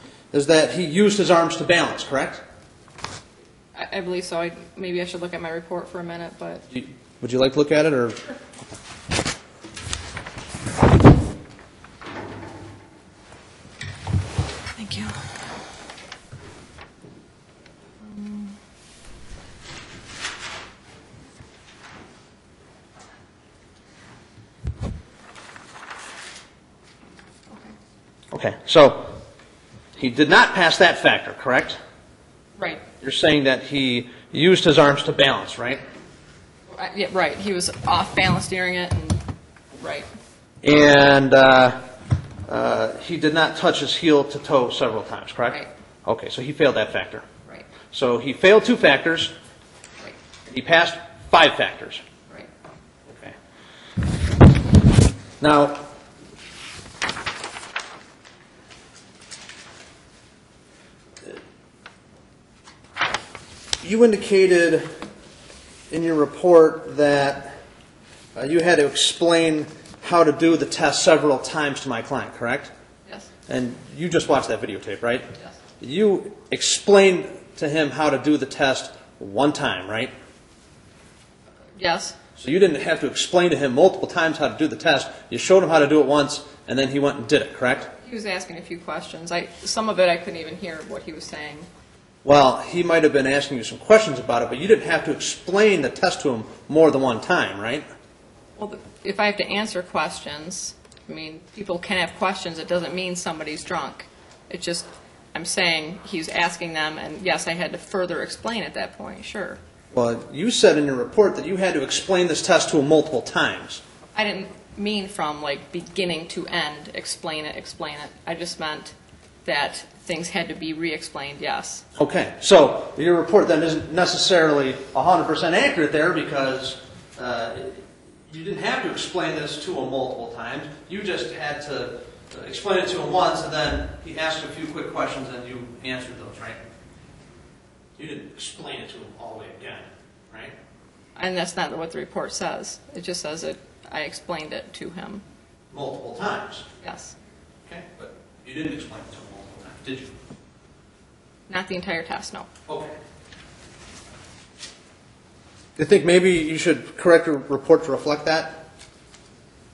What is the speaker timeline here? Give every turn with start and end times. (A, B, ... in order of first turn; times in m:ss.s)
0:00.3-0:02.4 A
0:03.8-0:06.6 B
0:06.7-0:08.2 A
0:14.8-0:15.4 B
0:18.0-0:18.6 B
0:28.3-0:29.1 A
0:30.0-0:31.8 A
0:32.6-0:32.8 B
0:33.0-0:35.8 A
0:36.7-0:39.2 B
0:39.8-0:40.1 B
0:40.6-0:41.8 A
0:42.5-0:47.3 A
0:47.9-0:49.3 A
0:50.5-0:52.0 A
0:53.1-0:53.4 A
0:55.4-0:55.8 A
1:03.8-1:04.9 A
1:05.9-1:07.6 A
1:08.4-1:12.7 A
1:13.5-1:15.3 A
1:15.8-1:20.1 A
1:21.8-1:22.2 B
1:22.4-1:27.9 A
1:28.0-1:31.7 B
1:32.2-1:37.9 A
1:38.6-1:49.6 B
1:49.9-1:53.8 A
1:54.2-2:01.8 B
2:02.0-2:16.6 A
2:18.0-2:20.6 A
2:21.2-2:25.2 B
2:25.7-2:26.7 A
2:26.8-2:27.2 B
2:27.7-2:30.2 A
2:31.5-2:32.5 B
2:32.7-2:33.0 A
2:35.8-2:38.6 A